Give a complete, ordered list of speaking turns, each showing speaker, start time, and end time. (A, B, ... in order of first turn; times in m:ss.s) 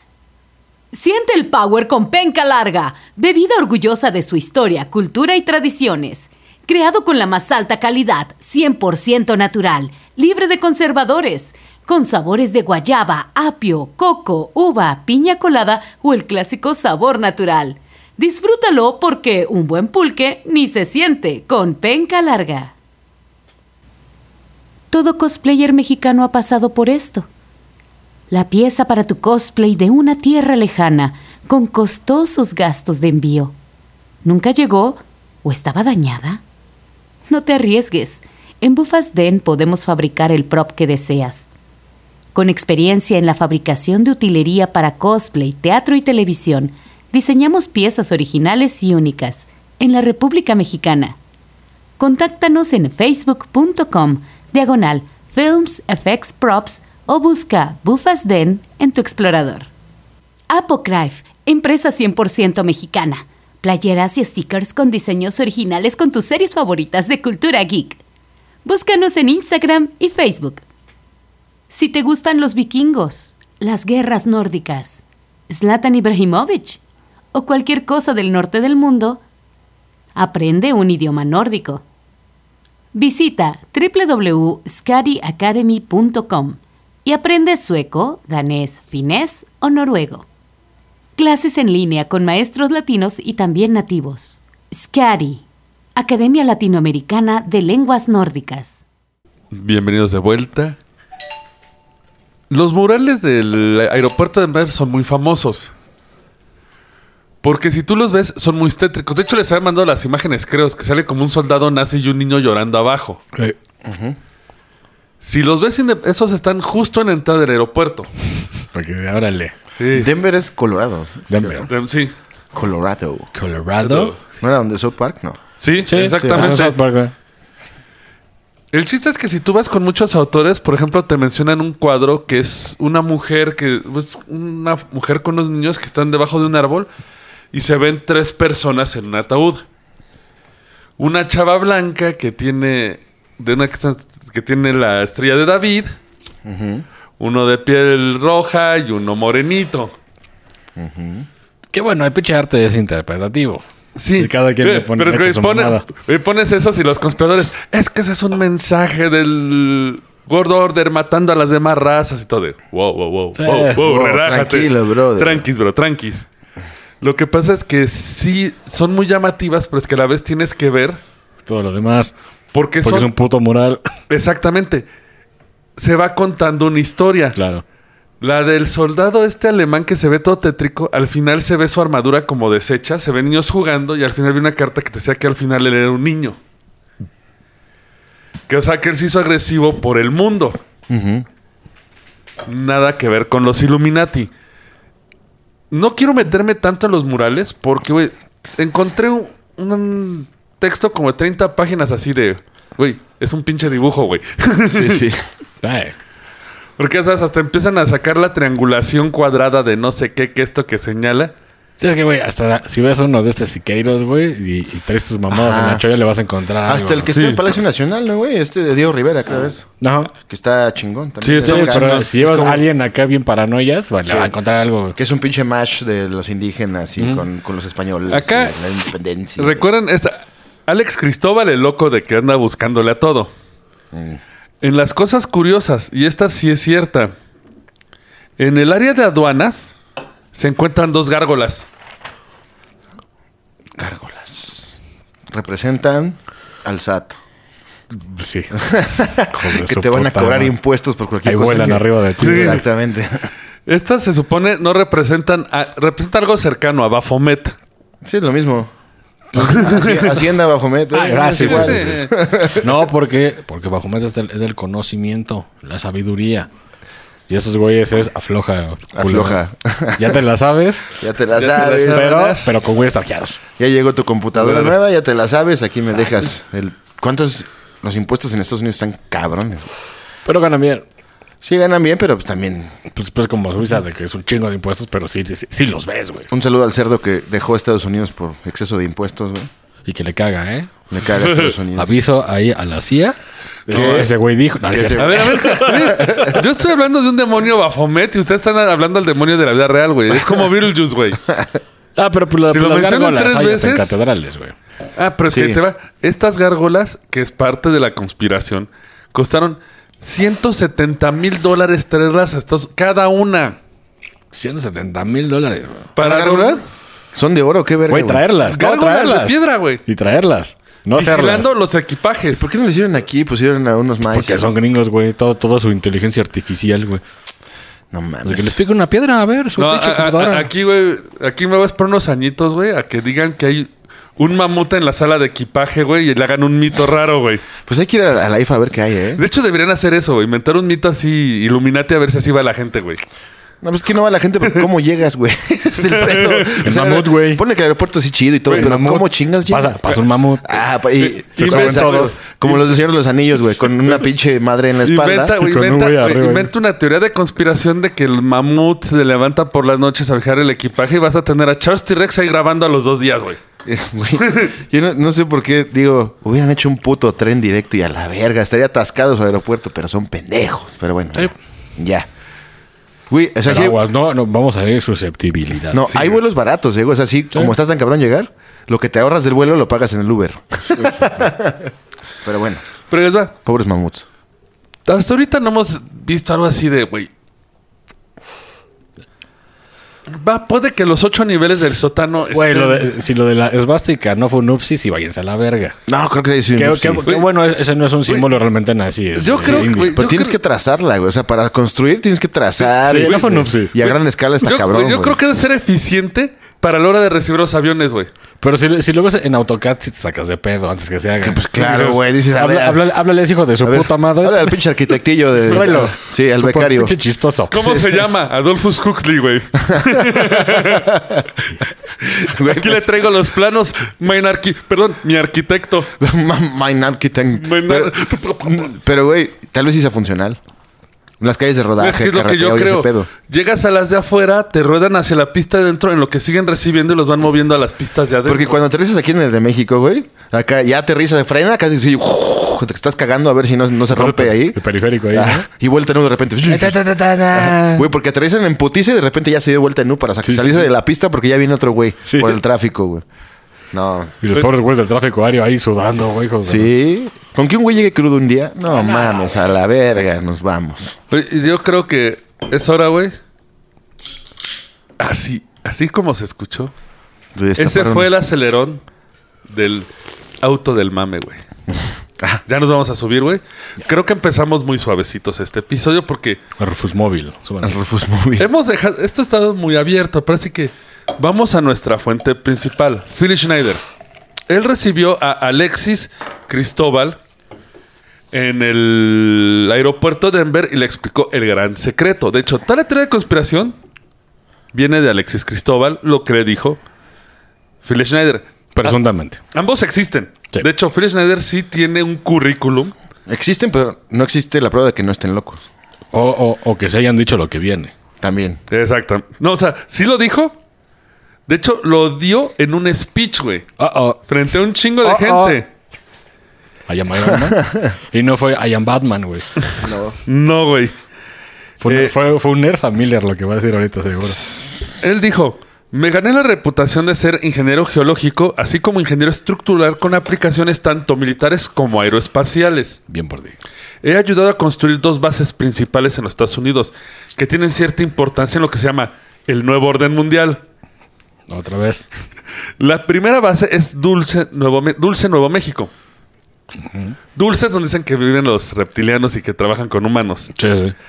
0:00.9-0:22.7 A
0:24.9-0:27.3 A
0:28.3-0:33.5 A
0:34.2-0:36.4 A
0:37.3-0:41.5 A
0:42.3-0:51.2 A
0:52.0-0:59.7 A
1:00.5-1:08.0 A
1:08.6-1:10.6 A
1:11.7-1:16.8 A
1:17.3-1:19.2 A
1:20.1-1:21.8 A
1:22.9-1:30.2 A
1:31.2-1:35.4 A
1:36.0-1:38.8 A
1:39.5-1:40.8 B
1:42.5-1:45.7 B
1:47.4-1:53.2 B
1:53.8-1:54.2 C
1:55.2-1:58.1 B
1:58.7-1:59.5 D
1:59.8-2:00.1 B
1:59.9-2:01.7 C
2:01.3-2:01.7 D
2:01.7-2:02.1 B
2:02.5-2:03.3 C
2:03.3-2:04.1 D
2:03.8-2:04.2 B
2:04.4-2:05.4 C
2:05.6-2:06.8 B
2:05.8-2:07.1 D
2:06.1-2:06.6 C
2:08.7-2:16.9 B
2:17.5-2:19.6 B
2:21.0-2:25.9 B
2:26.4-2:26.8 C
2:27.2-2:29.9 B
2:30.8-2:31.3 C
2:31.7-2:33.6 D
2:34.0-2:46.3 B
2:34.2-2:35.9 D
2:43.3-2:43.8 D
2:43.7-2:45.4 C
2:47.0-2:51.0 B
2:51.4-2:52.1 D
2:52.5-2:53.1 B
2:52.8-2:53.8 D
2:54.1-2:54.8 B
2:55.8-2:57.4 B
2:57.4-2:57.6 D
2:58.2-3:06.4 B
3:08.5-3:10.6 B
3:10.9-3:11.2 C
3:12.4-3:14.3 B
3:15.7-3:25.0 B
3:24.7-3:25.2 C
3:25.6-3:25.9 D
3:26.8-3:31.3 B
3:31.8-3:37.1 D
3:35.3-3:35.8 C
3:36.6-3:39.7 C
3:37.1-3:37.4 B
3:39.8-3:40.1 D
3:40.2-3:42.6 C
3:41.2-3:42.0 B
3:41.4-3:45.0 D
3:44.1-3:44.3 C
3:45.0-3:49.7 C
3:48.1-3:48.6 B
3:49.4-3:53.3 B
3:53.9-3:54.2 C
3:54.6-3:57.1 B
3:58.4-3:59.7 B
4:00.3-4:01.7 B
4:03.8-4:04.8 C
4:05.3-4:07.2 C
4:07.9-4:10.5 D
4:08.5-4:13.3 C
4:11.2-4:12.6 D
4:12.2-4:12.6 B
4:13.6-4:17.5 B
4:18.0-4:18.7 C
4:19.3-4:19.8 D
4:19.3-4:22.7 C
4:19.4-4:20.2 B
4:20.9-4:26.5 D
4:21.3-4:22.1 B
4:27.3-4:29.4 D
4:28.9-4:30.2 C
4:30.0-4:31.0 D
4:31.0-4:32.1 C
4:31.4-4:32.5 B
4:31.9-4:33.4 D
4:33.6-4:39.7 C
4:34.4-4:34.7 B
4:40.2-4:40.8 D
4:41.4-4:42.7 C
4:42.9-4:46.3 D
4:46.3-4:49.5 C
4:49.8-4:50.8 D
4:50.9-4:51.9 C
4:51.7-4:53.2 D
4:53.7-4:56.0 D
4:53.7-4:54.1 C
4:54.7-4:56.4 C
4:55.0-5:01.2 B
5:02.0-5:04.5 D
5:02.5-5:04.0 B
5:05.0-5:13.6 B
5:05.3-5:05.6 C
5:14.3-5:15.9 D
5:16.0-5:16.6 B
5:16.0-5:16.6 C
5:17.1-5:18.2 C
5:17.9-5:21.5 D
5:18.4-5:19.8 B
5:21.0-5:22.4 B
5:22.3-5:24.5 C
5:24.1-5:27.0 D
5:27.9-5:28.6 C
5:28.2-5:30.5 D
5:29.6-5:37.4 B
5:37.6-5:39.2 C
5:39.2-5:43.0 B
5:43.6-5:55.4 C
5:45.8-5:46.7 B
5:46.6-5:47.4 D
5:48.5-5:50.6 D
5:51.0-5:52.6 B
5:51.4-5:52.1 D
5:54.8-6:03.4 B
5:55.4-5:56.5 D
6:03.6-6:12.1 C
6:04.2-6:04.5 B
6:13.1-6:13.8 C
6:13.4-6:16.2 D
6:15.7-6:21.7 C
6:20.8-6:21.3 D
6:22.2-6:22.6 C
6:22.9-6:23.3 B
6:23.4-6:24.0 C
6:24.8-6:27.1 B
6:30.1-6:32.9 B
6:32.3-6:35.8 D
6:35.9-6:37.0 C
6:36.5-6:40.0 D
6:39.1-6:40.4 B
6:39.5-6:45.2 C
6:42.8-6:43.7 D
6:43.8-6:48.1 B
6:48.4-6:54.6 D
6:51.2-6:52.8 C
6:53.6-6:57.0 C
6:55.5-6:57.9 D
6:57.5-7:00.9 B
6:59.7-7:01.3 C
7:02.0-7:05.9 B
7:02.2-7:02.9 C
7:06.0-7:10.4 C
7:07.4-7:08.7 B
7:11.2-7:13.1 C
7:11.8-7:18.6 B
7:18.2-7:24.6 C
7:23.9-7:25.4 D
7:25.1-7:33.0 C
7:26.4-7:27.9 D
7:30.2-7:30.7 D
7:32.0-7:32.4 D
7:33.7-7:34.2 C
7:34.2-7:36.7 D
7:36.4-7:41.0 C
7:41.1-7:43.2 B
7:45.0-7:46.7 B
7:47.3-7:48.1 C
7:47.6-7:48.8 B
7:49.5-7:49.9 B
7:50.4-7:51.4 B
7:52.5-7:56.4 B
7:56.6-7:57.8 D
7:57.6-7:58.5 C
7:58.4-8:03.8 B
8:04.5-8:07.2 B
8:08.3-8:13.8 B
8:14.7-8:16.8 B
8:17.8-8:19.0 B
8:18.7-8:19.4 D
8:19.5-8:22.9 B
8:23.3-8:25.7 C
8:26.1-8:27.9 D
8:28.2-8:28.6 C
8:28.7-8:30.6 B
8:31.5-8:33.7 B
8:33.8-8:34.2 D
8:34.3-8:35.6 B
8:35.0-8:35.6 D
8:36.9-8:39.5 D
8:37.2-8:37.9 C
8:39.8-8:40.2 C
8:40.2-8:40.9 B
8:41.8-8:44.5 D
8:41.9-8:42.1 B
8:45.0-8:53.0 B
8:53.1-8:53.6 D
8:54.0-9:00.6 B
9:01.5-9:02.0 D
9:02.8-9:05.9 B
9:06.8-9:07.1 D
9:07.4-9:10.5 B
9:10.5-9:10.9 D